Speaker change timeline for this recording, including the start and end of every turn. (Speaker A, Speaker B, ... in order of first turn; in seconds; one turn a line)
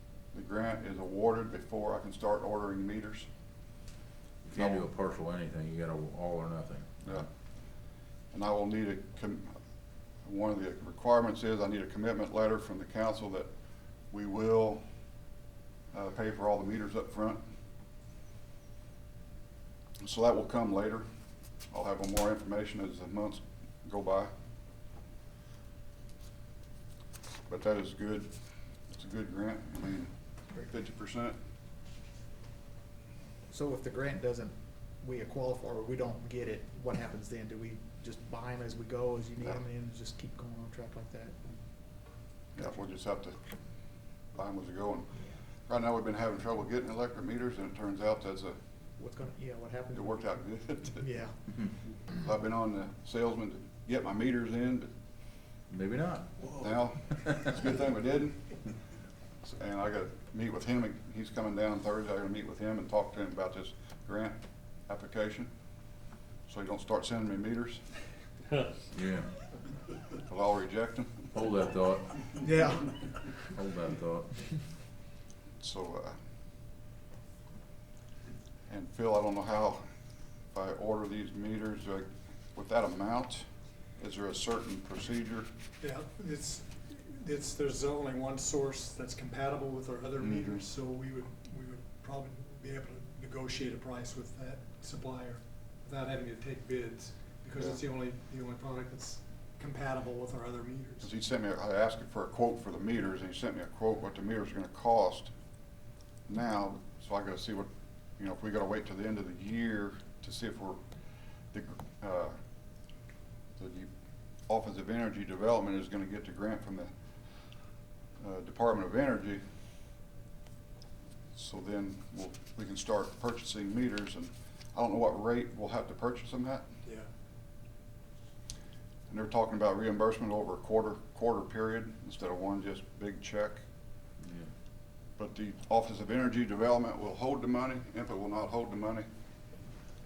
Speaker A: 0.3-3.3
Speaker B: 4.5-7.2
Speaker A: 4.5-4.8
Speaker A: 8.3-9.6
Speaker A: 10.2-13.5
Speaker A: 14.1-14.8
Speaker A: 15.9-17.4
Speaker A: 20.0-21.1
Speaker A: 21.7-24.3
Speaker A: 27.5-28.3
Speaker A: 28.9-31.4
Speaker C: 33.5-41.4
Speaker A: 42.5-43.4
Speaker A: 44.3-45.1
Speaker A: 45.7-48.6
Speaker C: 49.0-50.3
Speaker A: 49.9-51.0
Speaker C: 51.0-51.3
Speaker A: 52.1-54.9
Speaker B: 55.7-57.6
Speaker A: 56.5-58.4
Speaker A: 59.4-65.5
Speaker A: 66.5-67.8
Speaker B: 68.9-69.3
Speaker A: 70.2-71.3
Speaker B: 71.3-72.4
Speaker C: 72.4-73.3
Speaker B: 73.5-74.5
Speaker A: 75.6-76.2
Speaker A: 78.7-79.8
Speaker A: 80.5-83.5
Speaker A: 84.0-85.5
Speaker D: 85.8-101.1
Speaker A: 90.2-90.6
Speaker A: 101.0-105.3
Speaker A: 106.3-110.8
Speaker A: 111.5-112.4
Speaker A: 113.6-113.9
Speaker A: 114.5-116.9
Speaker A: 118.2-119.4
Speaker A: 121.3-126.7
Speaker A: 129.1-133.6
Speaker B: 134.2-134.5
Speaker A: 135.2-139.1